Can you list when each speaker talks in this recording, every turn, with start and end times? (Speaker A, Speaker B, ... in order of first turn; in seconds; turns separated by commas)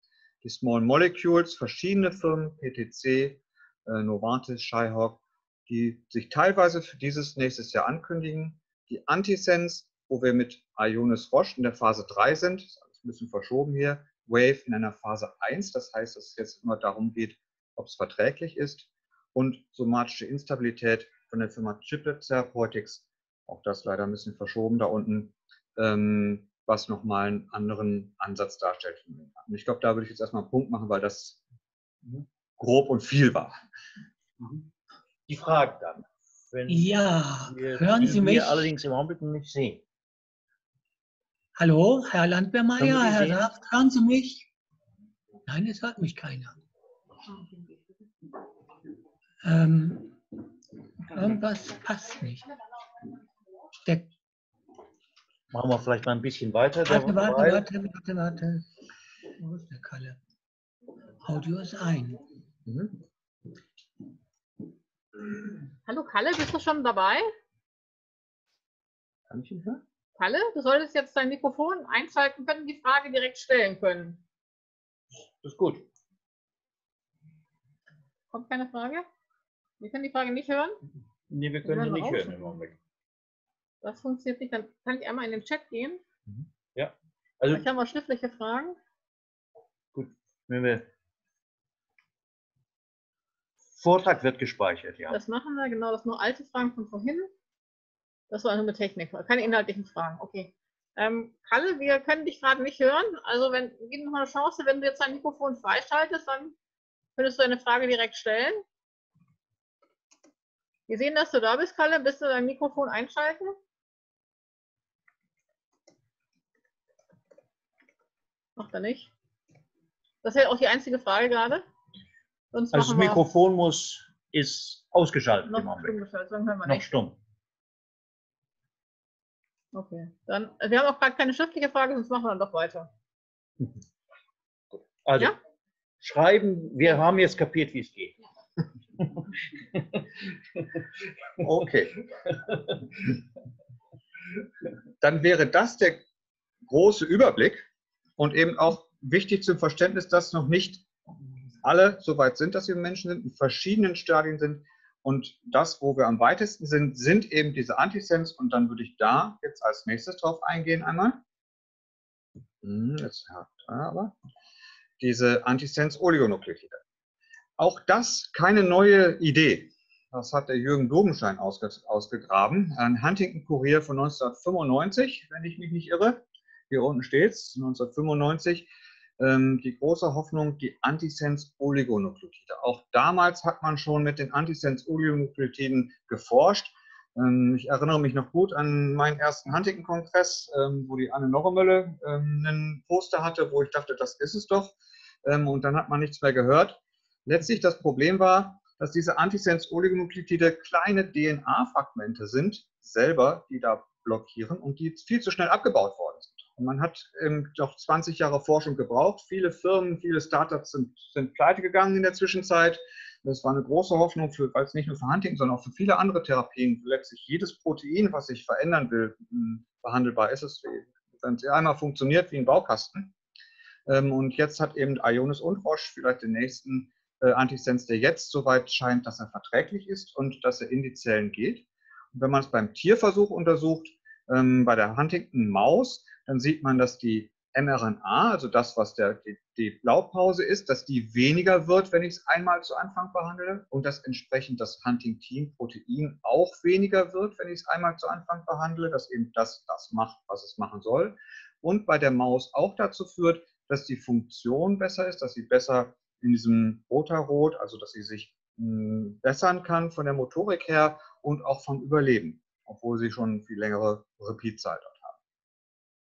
Speaker A: 0.4-31.4, Speaker A: 32.6-33.6, Speaker B: 35.3-39.8, Speaker C: 36.7-38.7, Speaker C: 41.6-44.5, Speaker B: 42.8-43.6, Speaker C: 45.5-46.6, Speaker C: 49.4-50.2, Speaker C: 51.1-52.5, Speaker B: 55.5-57.7, Speaker C: 56.9-58.7, Speaker C: 59.4-60.2, Speaker C: 61.2-62.2, Speaker A: 62.7-63.0, Speaker D: 65.9-67.3, Speaker A: 69.3-69.8, Speaker D: 70.2-74.2, Speaker B: 75.4-75.8, Speaker D: 78.3-79.1, Speaker D: 79.8-80.8, Speaker B: 81.3-82.8, Speaker D: 81.7-82.4, Speaker D: 83.8-86.0, Speaker B: 86.8-87.7, Speaker D: 87.5-88.8, Speaker B: 89.9-90.9, Speaker B: 93.8-95.2, Speaker D: 95.1-97.3, Speaker D: 98.3-106.6, Speaker D: 107.2-108.6, Speaker D: 110.9-113.6, Speaker D: 118.6-119.1, Speaker D: 120.2-121.6, Speaker D: 122.5-123.2, Speaker B: 122.7-126.0, Speaker D: 125.5-126.9, Speaker B: 126.7-127.2, Speaker D: 129.7-132.9, Speaker B: 135.1-135.3, Speaker B: 136.0-138.2, Speaker A: 141.4-142.0, Speaker A: 145.0-146.0, Speaker A: 146.7-147.7, Speaker A: 148.2-150.8, Speaker A: 151.6-161.2, Speaker A: 162.6-164.1, Speaker A: 165.0-166.8, Speaker A: 167.6-178.7, Speaker A: 179.2-223.1, Speaker A: 223.9-265.2